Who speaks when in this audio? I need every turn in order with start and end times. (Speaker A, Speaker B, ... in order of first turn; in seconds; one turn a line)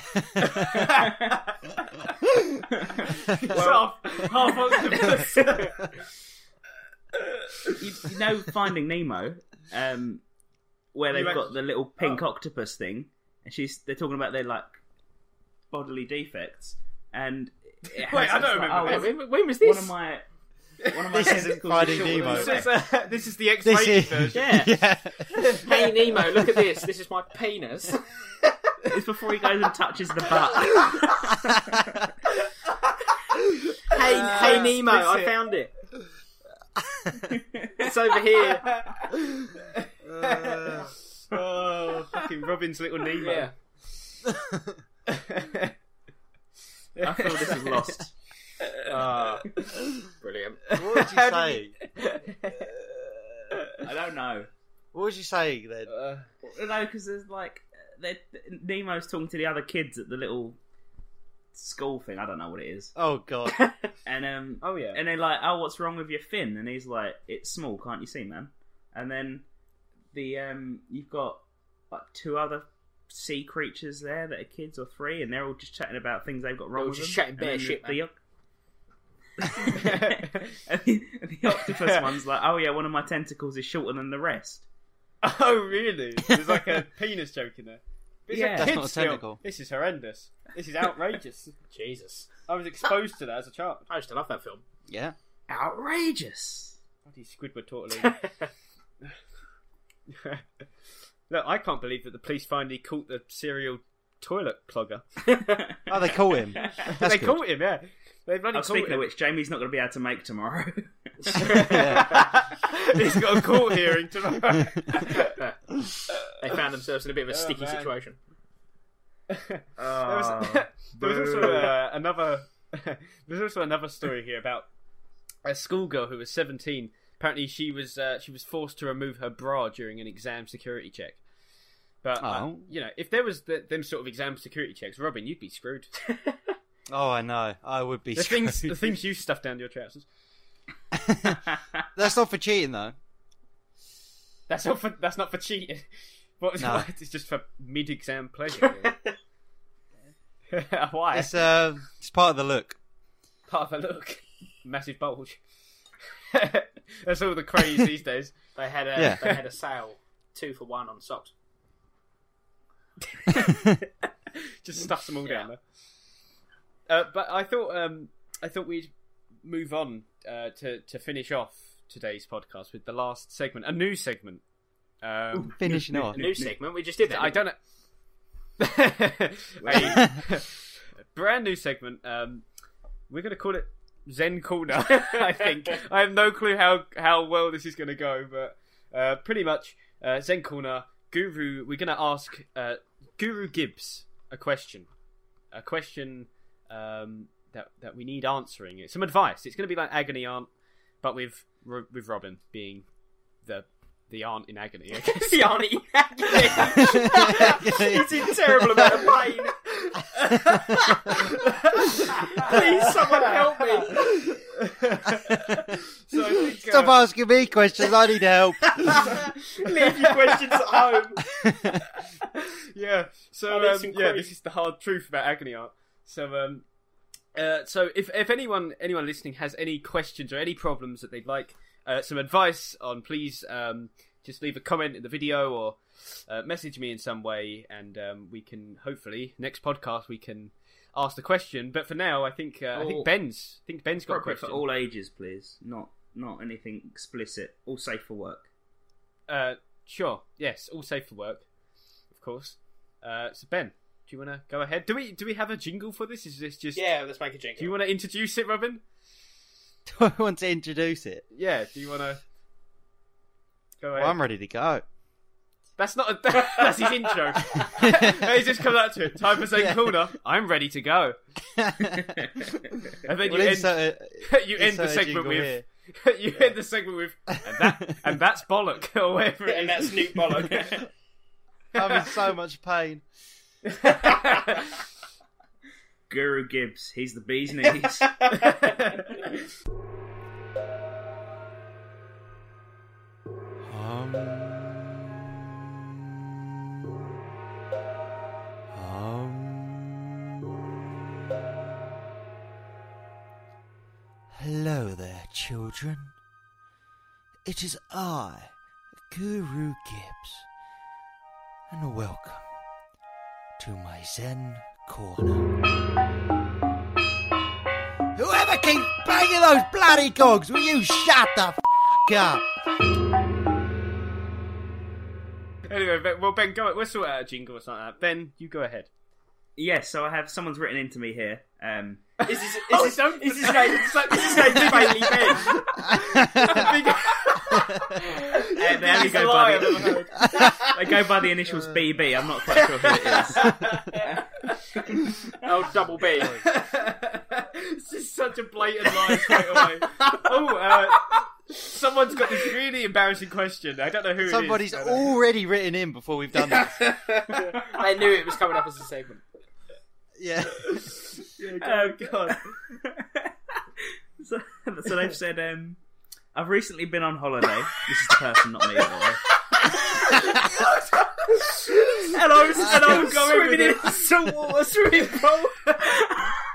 Speaker A: 0.1-0.7
Speaker B: 0.4-2.4
Speaker C: 0.7-1.4
Speaker C: 2.7-5.2
Speaker B: 3.1-5.9
Speaker D: 5.3-5.7
Speaker B: 7.2-7.8
Speaker C: 7.8-10.2
Speaker C: 10.9-14.8
Speaker B: 11.1-12.2
Speaker C: 15.7-20.3
Speaker B: 17.9-19.1
Speaker D: 18.8-19.9
Speaker B: 20.8-24.6
Speaker C: 20.9-22.7
Speaker A: 21.1-22.6
Speaker A: 23.6-25.4
Speaker D: 24.3-24.7
Speaker B: 25.3-26.2
Speaker D: 25.6-28.1
Speaker C: 28.8-32.1
Speaker B: 33.9-35.3
Speaker D: 33.9-35.7
Speaker C: 34.0-34.7
Speaker C: 37.3-37.9
Speaker D: 37.8-38.7
Speaker B: 38.5-43.5
Speaker A: 40.0-40.9
Speaker D: 43.2-43.5
Speaker A: 44.2-44.8
Speaker B: 45.1-45.7
Speaker B: 47.0-48.0
Speaker C: 47.0-48.1
Speaker B: 48.6-48.9
Speaker D: 48.9-49.5
Speaker D: 50.2-50.6
Speaker B: 50.7-53.8
Speaker A: 50.8-51.7
Speaker C: 53.8-54.5
Speaker A: 54.9-55.9
Speaker B: 55.9-56.3
Speaker C: 56.4-60.6
Speaker C: 61.5-62.9
Speaker A: 63.0-63.6
Speaker D: 63.5-63.9
Speaker C: 64.0-69.5
Speaker B: 64.6-65.0
Speaker C: 70.1-78.2
Speaker D: 76.8-78.0
Speaker C: 79.4-84.7
Speaker B: 79.6-80.6
Speaker B: 81.5-82.2
Speaker B: 85.2-91.5
Speaker C: 88.3-88.8
Speaker A: 88.5-89.4
Speaker D: 91.7-92.3
Speaker B: 92.5-93.9
Speaker D: 93.9-94.6
Speaker A: 94.9-95.2
Speaker C: 95.5-96.8
Speaker B: 97.0-98.2
Speaker D: 98.0-98.5
Speaker B: 100.1-100.4
Speaker B: 101.3-105.0
Speaker D: 105.3-105.6
Speaker A: 105.9-107.4
Speaker B: 106.8-109.1
Speaker C: 108.5-111.7
Speaker D: 111.3-112.2
Speaker B: 111.4-115.3
Speaker A: 111.5-112.2
Speaker D: 115.0-115.6
Speaker D: 116.3-118.2
Speaker B: 117.3-117.9
Speaker B: 119.3-124.7
Speaker C: 119.8-121.8
Speaker B: 125.5-131.2
Speaker B: 132.0-135.9
Speaker A: 132.2-132.7
Speaker A: 136.9-138.8
Speaker B: 138.2-140.1
Speaker A: 140.9-141.4
Speaker A: 141.9-142.9
Speaker B: 144.5-145.9
Speaker B: 146.4-148.9
Speaker A: 146.6-146.9
Speaker D: 148.6-149.1
Speaker B: 150.5-151.3
Speaker A: 151.1-152.8
Speaker B: 153.5-155.4
Speaker B: 156.3-158.4
Speaker D: 158.6-161.3
Speaker A: 159.0-159.2
Speaker B: 163.3-163.7
Speaker B: 164.3-165.6
Speaker B: 166.9-168.9
Speaker B: 169.4-174.4
Speaker B: 175.0-175.7
Speaker C: 175.3-176.6
Speaker A: 175.6-176.2
Speaker D: 176.1-177.4
Speaker B: 177.0-177.6
Speaker B: 178.6-182.4
Speaker C: 179.6-180.1
Speaker B: 183.1-194.9
Speaker B: 195.5-200.5
Speaker B: 201.0-202.8
Speaker B: 203.4-205.5
Speaker D: 204.9-209.6
Speaker B: 206.4-206.8
Speaker A: 206.8-209.0
Speaker B: 210.2-213.4
Speaker A: 210.3-211.1
Speaker D: 212.1-214.0
Speaker B: 213.9-217.0
Speaker A: 216.6-219.1
Speaker B: 218.8-220.6
Speaker D: 218.9-221.2
Speaker A: 221.3-221.8
Speaker B: 221.9-226.6
Speaker D: 223.5-224.3
Speaker B: 227.3-244.6
Speaker C: 242.8-243.1
Speaker C: 244.1-248.5
Speaker B: 249.3-251.4
Speaker B: 252.1-256.8
Speaker D: 256.8-257.7
Speaker B: 257.6-258.8
Speaker A: 259.9-261.2
Speaker B: 261.3-262.2
Speaker B: 263.8-264.2
Speaker A: 263.9-264.8
Speaker B: 265.8-271.2
Speaker D: 266.6-267.7
Speaker A: 267.8-268.4
Speaker A: 269.5-270.0
Speaker A: 271.6-272.2
Speaker C: 271.8-272.5
Speaker B: 273.1-280.7
Speaker A: 273.2-275.6
Speaker A: 277.4-278.0
Speaker D: 279.5-280.8
Speaker C: 280.4-280.8
Speaker A: 281.7-283.0
Speaker B: 281.8-282.1
Speaker B: 283.8-284.6
Speaker C: 286.1-288.4
Speaker D: 288.3-288.8
Speaker B: 288.6-289.1
Speaker A: 293.6-295.2
Speaker A: 295.7-296.9
Speaker A: 298.7-301.4
Speaker A: 304.3-306.1
Speaker A: 307.4-308.5
Speaker A: 309.1-310.4
Speaker A: 311.7-312.4
Speaker A: 313.6-315.5
Speaker A: 318.2-322.4
Speaker B: 325.7-328.9
Speaker C: 329.6-332.1
Speaker B: 332.2-340.7
Speaker D: 332.2-335.6
Speaker A: 335.8-336.8
Speaker A: 337.5-337.9
Speaker C: 338.6-345.3
Speaker D: 340.4-340.7
Speaker B: 342.5-344.6
Speaker D: 342.8-343.4
Speaker D: 345.4-346.4
Speaker B: 346.2-355.1
Speaker A: 354.2-356.9
Speaker B: 356.4-357.6
Speaker D: 357.7-359.2
Speaker A: 360.2-360.9
Speaker B: 360.6-362.5
Speaker C: 361.6-365.8
Speaker C: 366.3-370.4
Speaker B: 369.6-376.0
Speaker D: 369.9-370.2
Speaker C: 372.0-375.2
Speaker D: 372.1-375.3
Speaker A: 372.6-372.9
Speaker C: 375.8-376.3